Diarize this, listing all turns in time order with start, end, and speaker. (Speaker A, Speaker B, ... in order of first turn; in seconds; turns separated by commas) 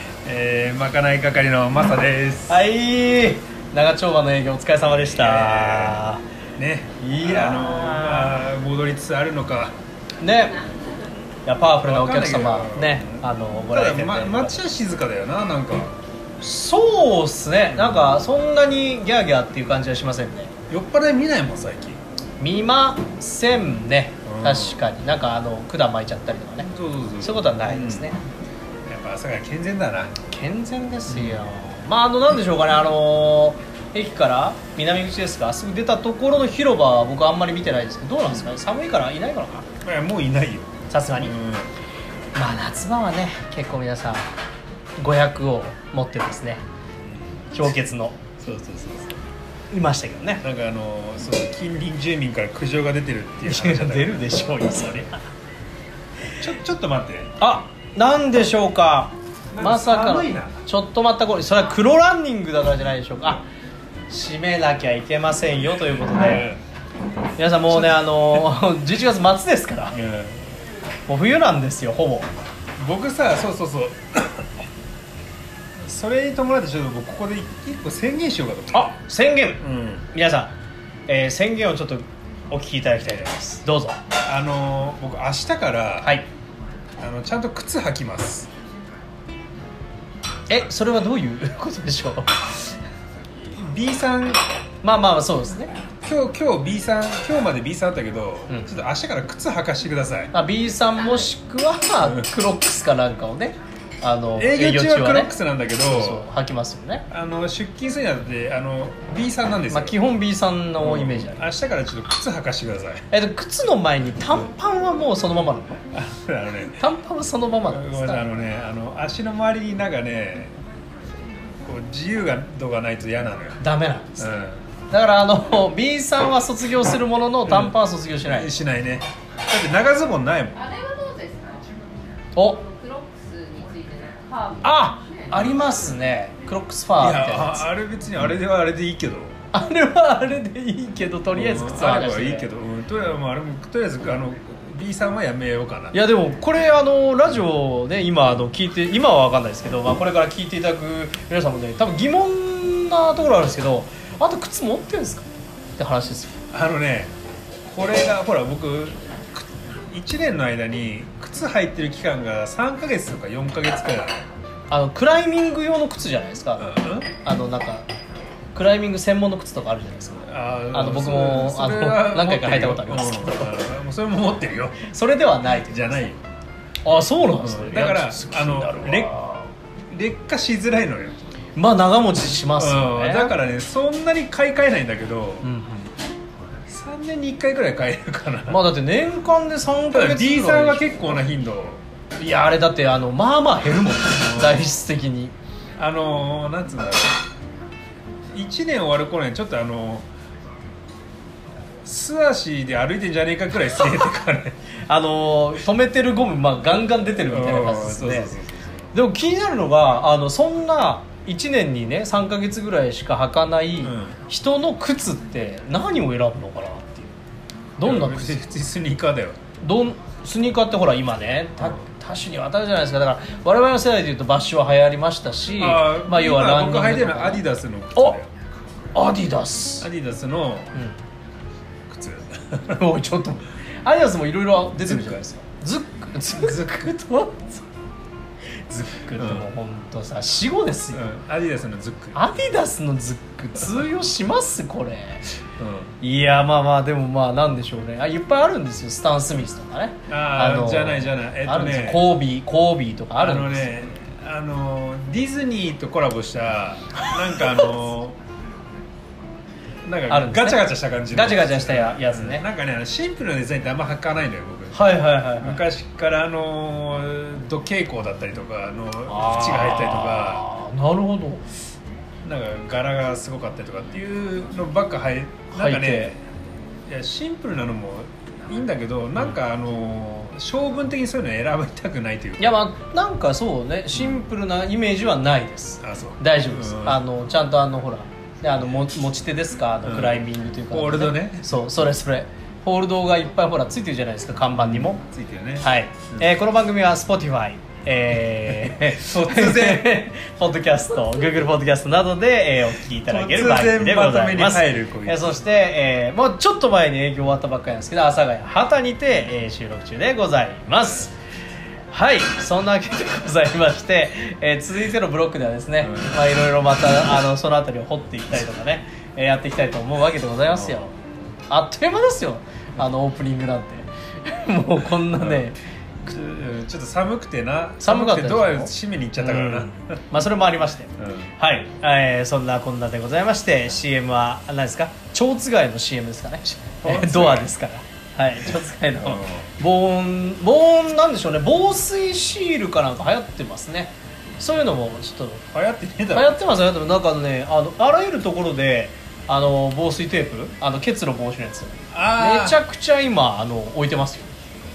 Speaker A: 0.2-2.6, Speaker B: 2.5-6.2, Speaker A: 5.0-6.0, Speaker A: 6.6-9.8, Speaker B: 7.0-8.4, Speaker B: 10.2-10.6, Speaker B: 11.4-14.6, Speaker A: 11.8-15.9, Speaker B: 16.4-20.5, Speaker A: 17.7-18.1, Speaker A: 20.7-22.0, Speaker B: 22.4-28.2, Speaker A: 24.2-24.8, Speaker A: 26.7-28.1, Speaker A: 28.9-30.1, Speaker B: 30.3-39.7, Speaker A: 31.1-31.4, Speaker A: 39.8-41.7, Speaker B: 40.9-41.3, Speaker B: 42.3-44.2, Speaker B: 45.0-46.6, Speaker A: 47.0-47.7, Speaker B: 47.5-48.2, Speaker A: 48.4-49.2, Speaker B: 49.7-50.4, Speaker A: 50.4-54.8, Speaker B: 53.4-55.2, Speaker A: 56.4-57.3, Speaker B: 57.4-63.4, Speaker A: 59.5-60.6, Speaker B: 64.1-66.5, Speaker A: 66.1-66.6, Speaker B: 67.4-70.0, Speaker A: 67.7-68.5, Speaker A: 69.9-70.5, Speaker B: 71.1-72.3, Speaker A: 72.8-74.5, Speaker A: 75.8-79.0, Speaker B: 78.7-80.5, Speaker A: 79.6-80.1, Speaker B: 81.1-84.0, Speaker A: 83.0-83.3, Speaker A: 84.2-86.2, Speaker B: 86.0-86.3, Speaker A: 87.0-88.5, Speaker B: 90.5-92.7, Speaker A: 93.5-94.4, Speaker B: 94.8-95.7, Speaker A: 96.0-100.3, Speaker B: 98.5-98.8, Speaker B: 100.3-107.1, Speaker A: 102.0-102.3, Speaker A: 104.3-106.2, Speaker A: 107.1-110.0, Speaker B: 109.7-111.4, Speaker A: 110.8-113.0, Speaker B: 113.1-115.8, Speaker A: 115.9-116.9, Speaker B: 116.8-118.3, Speaker A: 117.6-120.6, Speaker A: 121.6-123.6, Speaker B: 123.6-128.6, Speaker A: 124.2-124.6, Speaker A: 127.4-130.6, Speaker C: 130.5-131.8, Speaker B: 132.3-132.6, Speaker C: 132.3-135.4, Speaker B: 134.6-137.7, Speaker A: 137.0-139.4, Speaker B: 139.5-142.5, Speaker A: 141.3-145.9, Speaker B: 145.9-156.4, Speaker A: 156.5-157.1, Speaker A: 157.7-164.2, Speaker B: 164.7-167.9, Speaker A: 166.6-167.1, Speaker B: 168.5-173.6, Speaker A: 170.2-174.9, Speaker B: 174.9-176.1, Speaker A: 175.7-176.2, Speaker B: 176.8-179.5, Speaker A: 177.4-179.2, Speaker A: 179.9-181.3, Speaker B: 181.6-183.3, Speaker A: 182.6-185.5, Speaker B: 185.4-185.9, Speaker A: 186.7-188.6, Speaker B: 188.5-191.2, Speaker A: 189.9-191.8, Speaker B: 192.2-195.3, Speaker A: 194.2-194.7, Speaker A: 195.8-197.2, Speaker A: 198.3-200.1, Speaker A: 201.8-204.6, Speaker B: 204.9-208.4, Speaker A: 207.2-208.9, Speaker B: 208.9-217.2, Speaker A: 213.8-214.2, Speaker B: 217.8-218.4, Speaker A: 217.8-219.4, Speaker B: 219.6-227.4, Speaker A: 225.6-228.3, Speaker B: 228.9-229.9, Speaker A: 229.8-230.7, Speaker A: 231.9-232.8, Speaker B: 232.7-237.6, Speaker A: 234.8-235.2, Speaker A: 236.3-236.9, Speaker B: 238.7-241.0, Speaker A: 239.2-239.5, Speaker A: 240.9-242.2, Speaker B: 242.1-245.2, Speaker A: 245.6-245.9, Speaker B: 246.0-253.7, Speaker A: 250.1-252.1, Speaker A: 253.2-258.2, Speaker A: 259.8-270.4, Speaker B: 260.1-262.4, Speaker B: 264.7-265.6, Speaker B: 269.1-271.4, Speaker A: 272.2-276.2, Speaker B: 275.5-276.1, Speaker A: 276.9-282.6, Speaker B: 282.4-295.0, Speaker A: 285.8-287.0, Speaker A: 289.8-291.5, Speaker A: 294.6-296.3, Speaker B: 295.6-311.1, Speaker A: 298.5-300.0, Speaker A: 303.0-305.3, Speaker B: 311.9-321.0, Speaker A: 315.8-316.1, Speaker A: 320.5-320.8, Speaker B: 321.5-325.6, Speaker A: 325.1-325.5, Speaker A: 326.0-330.0, Speaker B: 327.8-345.4, Speaker A: 331.0-331.3, Speaker A: 336.8-337.5, Speaker A: 339.0-339.5, Speaker A: 345.5-346.6, Speaker B: 346.1-354.3, Speaker A: 351.9-352.6